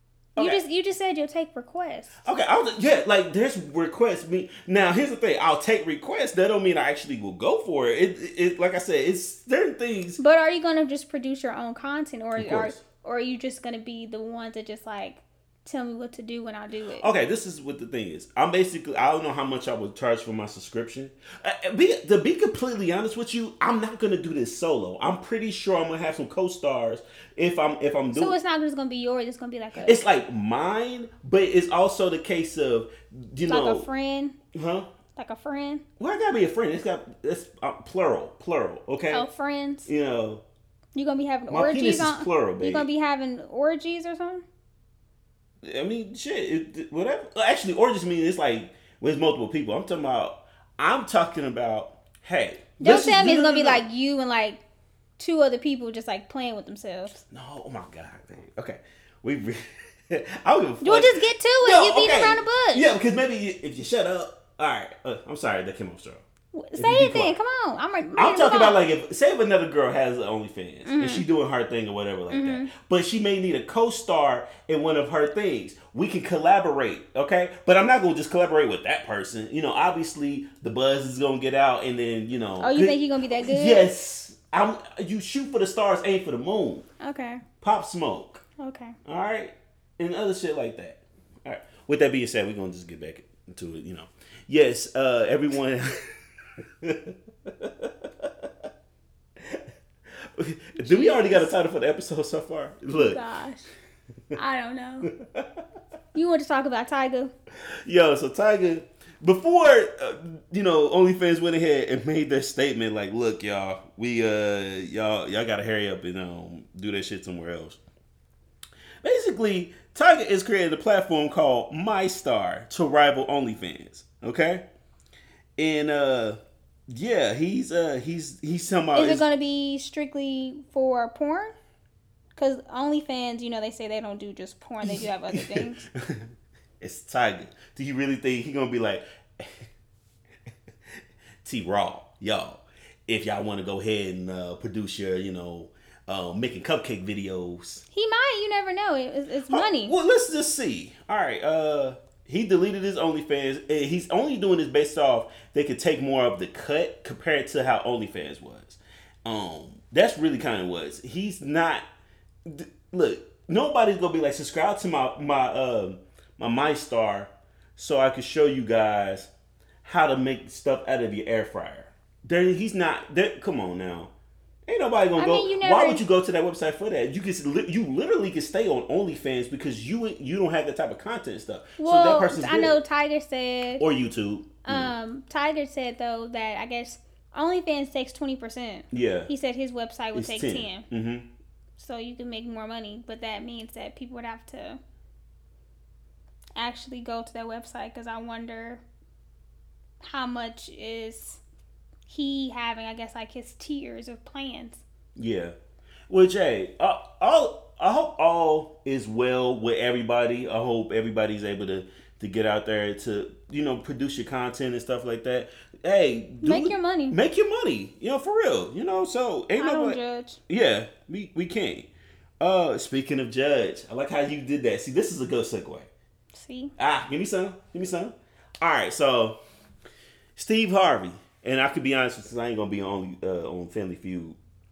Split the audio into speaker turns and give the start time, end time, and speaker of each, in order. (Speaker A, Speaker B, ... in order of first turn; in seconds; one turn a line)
Speaker A: 0.4-2.2
Speaker B: 2.2-10.2
Speaker A: 10.2-17.1
Speaker B: 12.3-12.8
Speaker B: 17.0-28.4
Speaker A: 28.1-30.0
Speaker B: 29.8-33.9
Speaker A: 33.4-34.4
Speaker B: 34.5-34.9
Speaker A: 35.1-35.8
Speaker B: 36.0-39.2
Speaker A: 39.1-39.9
Speaker B: 39.9-40.4
Speaker A: 40.9-44.4
Speaker B: 41.5-42.9
Speaker B: 45.6-53.8
Speaker A: 52.8-54.6
Speaker A: 55.2-57.2
Speaker B: 57.2-66.2
Speaker A: 60.8-62.9
Speaker A: 66.5-68.8
Speaker B: 66.8-67.3
Speaker B: 68.2-86.8
Speaker A: 70.8-71.2
Speaker A: 72.3-72.7
Speaker A: 82.6-83.8
Speaker A: 87.0-87.4
Speaker B: 87.6-88.4
Speaker A: 88.6-89.0
Speaker B: 89.0-98.5
Speaker B: 99.4-99.6
Speaker B: 100.2-103.2
Speaker A: 100.8-101.5
Speaker A: 102.9-103.7
Speaker A: 104.3-105.1
Speaker B: 105.0-105.6
Speaker A: 106.1-107.3
Speaker B: 107.8-117.8
Speaker B: 119.0-124.6
Speaker B: 125.6-126.4
Speaker B: 126.9-129.2
Speaker A: 128.9-131.5
Speaker A: 132.3-135.8
Speaker B: 134.8-139.7
Speaker B: 141.4-147.8
Speaker A: 147.9-149.9
Speaker B: 149.5-161.8
Speaker B: 162.4-169.3
Speaker B: 169.8-174.1
Speaker B: 174.7-182.8
Speaker A: 175.1-176.0
Speaker A: 181.8-183.8
Speaker B: 183.8-184.9
Speaker A: 184.7-190.9
Speaker B: 188.9-189.3
Speaker B: 190.1-191.3
Speaker A: 191.8-194.8
Speaker A: 196.6-198.8
Speaker A: 200.0-201.4
Speaker A: 202.1-204.8
Speaker B: 205.2-205.5
Speaker B: 206.1-221.9
Speaker A: 216.4-217.2
Speaker A: 219.6-220.4
Speaker B: 222.4-225.9
Speaker A: 226.3-226.7
Speaker B: 226.8-229.4
Speaker B: 230.3-234.4